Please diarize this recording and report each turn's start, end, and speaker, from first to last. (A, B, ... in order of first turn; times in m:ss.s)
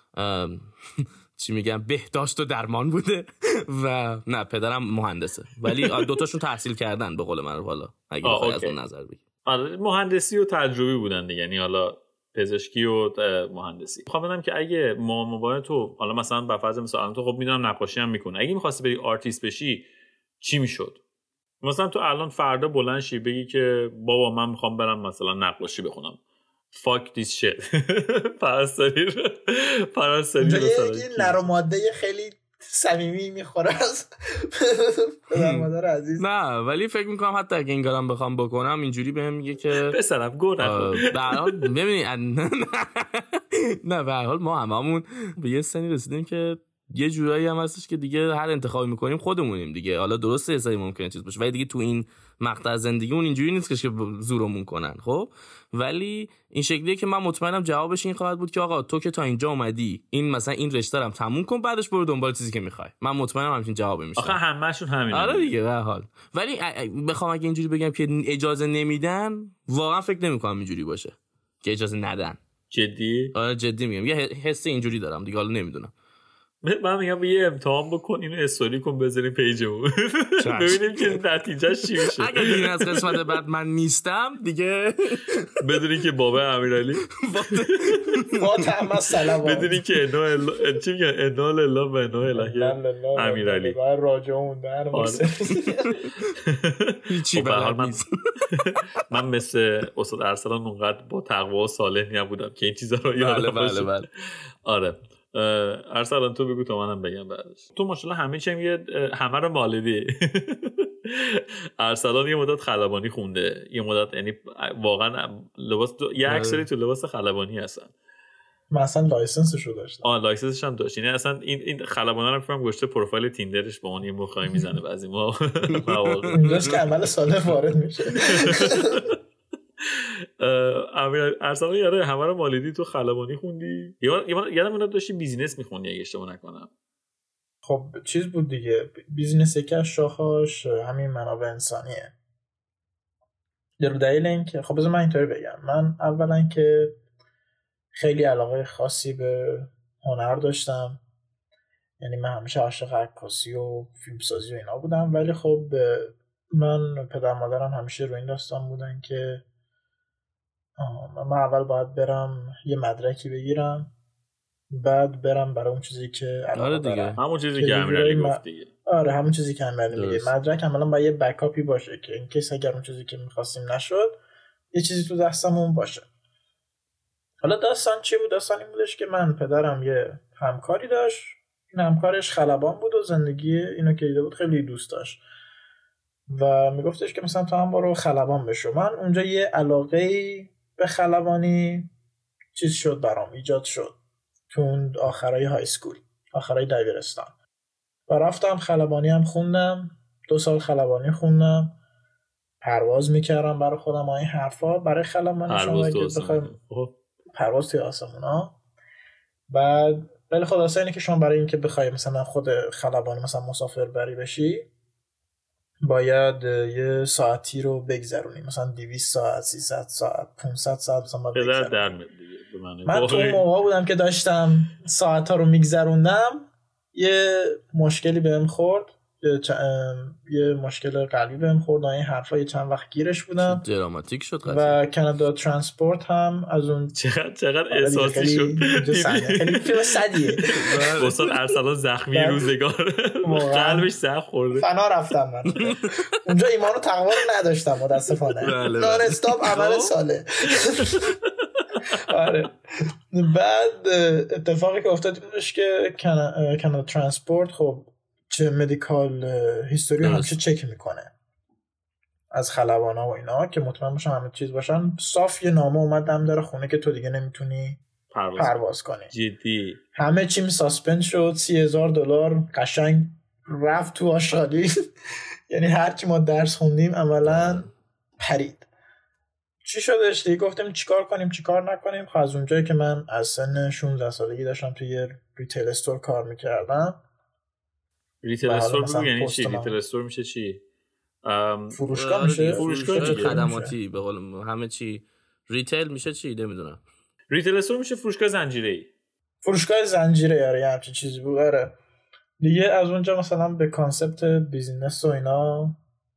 0:00.1-0:09.2 A
0:05.7-0:06.1 B
0:08.2-0:08.8 B
0:09.4-0:19.9 B
0:20.4-0:21.0 B
0:21.6-0:26.2 B
0:26.7-0:31.4 B
0:30.4-0:36.2 C
0:35.3-0:35.7 A
0:36.2-0:40.0 A
0:39.7-0:41.6 B
0:40.6-1:04.4 A
1:04.2-1:05.5 B
1:05.1-1:12.4 A
1:12.7-1:13.3 B
1:13.3-1:15.9 A
1:16.6-1:23.2 B
1:20.4-1:21.2 A
1:22.0-1:25.6 A
1:25.6-1:27.9 B
1:27.1-1:28.6 A
1:28.4-1:29.8 C
1:29.4-1:33.8 B
1:32.3-1:36.0 C
1:34.9-1:35.2 B
1:35.5-1:36.3 A
1:36.3-1:38.0 B
1:37.1-1:39.0 A
1:38.6-1:44.1 B
1:43.2-1:44.1 A
1:44.6-1:57.9 B
1:56.2-1:56.7 A
1:58.7-2:00.1 C
2:00.0-2:06.5 B
2:05.7-2:06.8 A
2:06.3-2:09.0 C
2:08.2-2:09.1 B
2:09.8-2:16.7 B
2:17.6-2:22.1 C
2:23.8-2:27.0 C
2:27.9-2:31.0 C
2:32.0-2:39.4 C
2:40.8-2:43.9 C
2:44.7-2:54.2 C
2:46.5-2:47.2 A
2:47.2-2:48.7 B
2:49.9-2:50.3 A
2:54.7-2:56.1 C
2:57.4-3:05.2 C
3:06.3-3:11.9 C
3:12.5-3:14.0 C
3:14.5-3:17.3 C
3:18.1-3:21.8 C
3:22.6-3:26.5 C
3:25.5-3:26.9 B
3:27.3-3:28.6 C
3:29.5-3:34.7 C
3:35.8-3:41.9 C
3:41.3-3:43.4 B
3:42.8-3:53.6 C
3:53.4-3:54.8 A
3:54.4-3:56.9 C
3:56.9-4:04.7 B
3:57.7-4:00.5 C
4:00.6-4:01.1 A
4:02.1-4:02.5 C
4:03.2-4:03.9 C
4:04.6-4:11.1 C
4:05.6-4:06.2 A
4:08.4-4:10.0 A
4:12.1-4:12.6 C
4:13.1-4:21.1 C
4:20.0-4:20.4 A
4:22.3-4:27.8 C
4:28.1-4:29.8 B
4:28.4-4:29.1 C
4:29.9-4:34.7 C
4:35.5-4:37.7 C
4:37.2-4:37.7 A
4:38.2-4:38.7 C
4:39.6-4:47.0 C
4:48.2-4:50.6 B
4:48.4-4:49.8 C
4:51.2-4:51.8 B
4:51.7-4:53.7 C
4:51.9-4:56.8 A
4:52.6-4:53.4 B
4:57.3-4:58.9 B
4:59.4-5:01.8 C
5:02.4-5:05.8 C